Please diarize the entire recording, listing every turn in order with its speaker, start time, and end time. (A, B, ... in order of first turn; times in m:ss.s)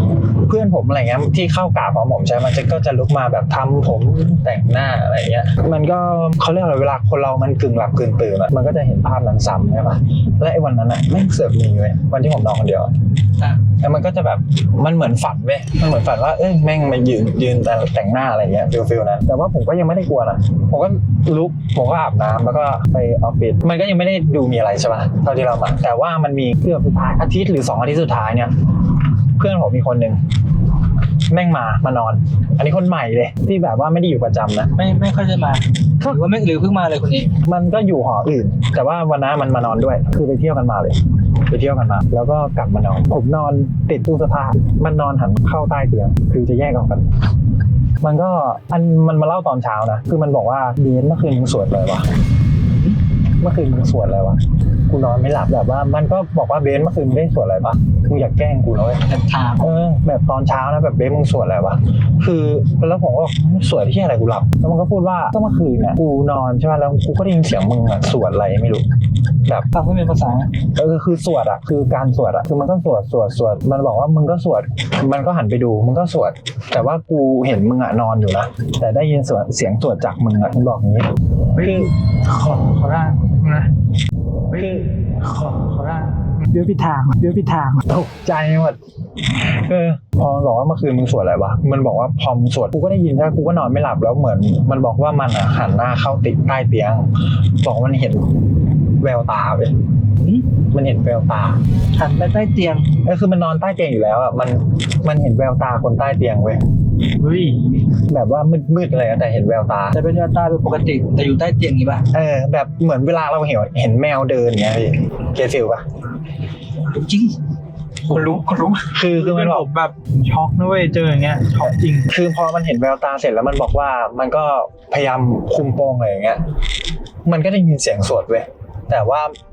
0:00.4-0:12.9 A
0:13.7-0:28.5 A
0:29.4-0:30.2 A
0:31.3-0:34.7 A
0:34.8-0:37.3 B
0:37.4-0:41.0 A
0:41.5-0:47.1 A
0:48.0-0:52.1 A
0:52.7-0:53.0 B
0:53.4-0:59.0 A
0:59.1-0:59.6 B
0:59.6-1:08.9 A
1:09.7-1:10.5 B
1:10.8-1:21.9 A
1:21.6-1:23.7 C
1:24.5-1:27.8 C
1:24.5-1:24.9 A
1:27.9-1:28.8 A
1:29.4-1:38.3 A
1:39.0-1:39.8 A
1:40.2-1:40.5 B
1:40.7-1:41.6 A
1:41.9-1:42.9 B
1:43.0-1:46.6 A
1:47.2-1:47.8 C
1:48.1-1:50.0 A
1:49.9-1:52.1 B
1:52.1-1:55.8 A
1:56.9-1:57.4 B
1:58.0-2:02.1 C
1:58.1-1:58.9 B
1:58.9-1:59.7 A
2:02.1-2:06.4 A
2:07.2-2:09.4 A